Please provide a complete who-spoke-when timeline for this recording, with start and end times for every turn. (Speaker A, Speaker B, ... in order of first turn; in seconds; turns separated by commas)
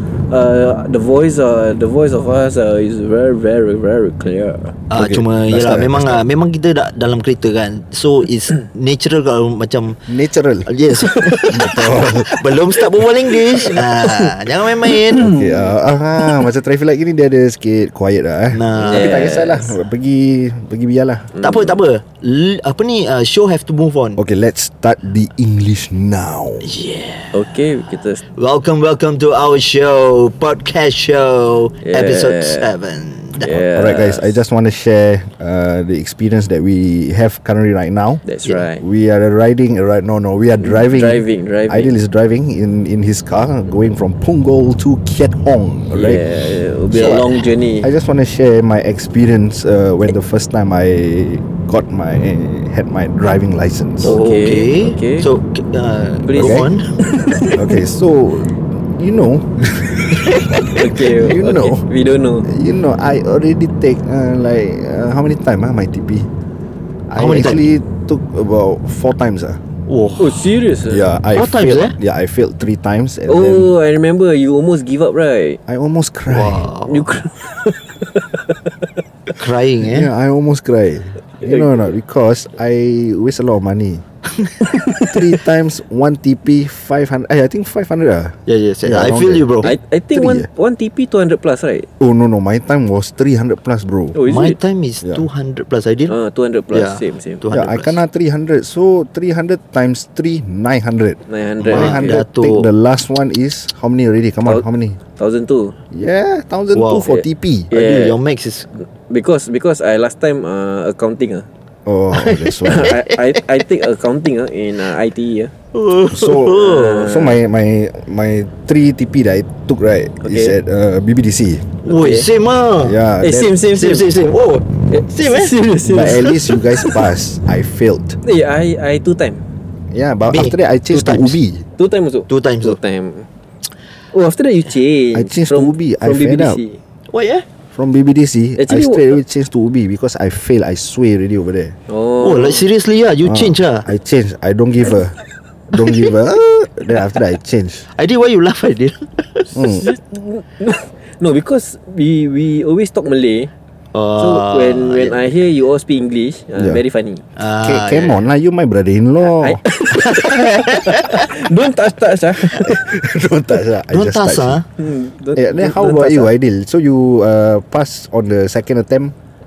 Speaker A: 0.3-4.8, Speaker B: 4.9-10.0, Speaker C: 4.9-6.2, Speaker C: 10.1-10.7, Speaker B: 10.7-15.3, Speaker A: 11.2-11.5, Speaker C: 11.5-12.4, Speaker A: 13.5-14.3, Speaker A: 14.9-15.7, Speaker C: 15.2-21.3, Speaker B: 18.5-19.3, Speaker A: 18.9-19.7, Speaker A: 21.3-21.7, Speaker B: 21.4-24.2, Speaker C: 24.2-26.7, Speaker B: 26.6-27.5, Speaker A: 27.3-28.2, Speaker B: 28.3-33.5, Speaker A: 31.8-32.7, Speaker A: 33.4-34.3, Speaker C: 33.5-38.2, Speaker A: 38.2-38.8, Speaker C: 38.8-46.2, Speaker A: 40.6-41.9, Speaker A: 45.9-47.9, Speaker C: 46.9-47.3, Speaker C: 47.8-54.1, Speaker A: 54.0-55.3, Speaker B: 54.0-56.9, Speaker A: 56.3-57.7, Speaker C: 56.4-56.6, Speaker C: 57.5-60.4, Speaker B: 60.1-60.8, Speaker A: 60.7-62.5, Speaker C: 61.0-61.8, Speaker C: 62.5-66.3, Speaker C: 67.1-69.6, Speaker B: 67.2-67.6, Speaker B: 69.9-70.4, Speaker A: 70.2-71.0, Speaker C: 70.9-73.7, Speaker B: 71.3-71.9, Speaker A: 73.3-75.6, Speaker C: 75.7-76.7, Speaker B: 76.3-77.0, Speaker A: 76.8-78.7, Speaker B: 79.3-80.1, Speaker C: 79.8-84.0, Speaker A: 81.4-81.8, Speaker B: 84.4-84.7, Speaker C: 84.9-89.5, Speaker B: 88.5-89.7, Speaker A: 89.6-91.9, Speaker C: 90.1-90.5, Speaker C: 92.0-94.2, Speaker A: 94.1-94.6, Speaker B: 94.3-96.1, Speaker A: 96.1-97.4, Speaker B: 96.7-98.0, Speaker C: 97.5-105.0, Speaker A: 101.3-102.2, Speaker B: 101.6-102.7, Speaker A: 105.2-105.8, Speaker C: 105.9-107.7, Speaker B: 106.7-107.1, Speaker A: 107.7-108.2, Speaker B: 107.7-108.7, Speaker A: 109.1-111.5, Speaker C: 111.8-113.0, Speaker B: 112.1-113.4, Speaker A: 112.6-115.5, Speaker B: 115.7-117.1, Speaker C: 116.1-121.7, Speaker A: 116.5-117.3, Speaker A: 120.2-120.5, Speaker A: 121.8-122.2, Speaker B: 121.8-123.0, Speaker C: 122.8-123.5, Speaker A: 123.2-124.1, Speaker B: 123.7-125.6, Speaker A: 124.9-126.9, Speaker C: 125.8-128.2, Speaker A: 128.2-129.4, Speaker C: 129.9-131.6, Speaker B: 130.3-131.3, Speaker A: 131.8-133.3, Speaker B: 132.3-132.8, Speaker A: 134.1-136.8, Speaker C: 135.1-136.6, Speaker B: 137.1-137.4, Speaker C: 137.7-141.7, Speaker A: 138.6-139.2, Speaker A: 141.9-142.6, Speaker B: 142.2-143.9, Speaker C: 143.2-145.1, Speaker C: 145.7-147.8, Speaker B: 145.7-146.1, Speaker B: 147.9-149.6, Speaker C: 149.5-149.8, Speaker A: 149.8-153.5, Speaker B: 153.9-155.2, Speaker A: 154.2-157.2, Speaker B: 157.3-158.2, Speaker C: 157.6-159.6, Speaker A: 159.2-162.8, Speaker B: 159.9-161.2, Speaker C: 162.5-164.6, Speaker B: 163.9-164.7, Speaker A: 164.8-166.3, Speaker C: 165.3-169.1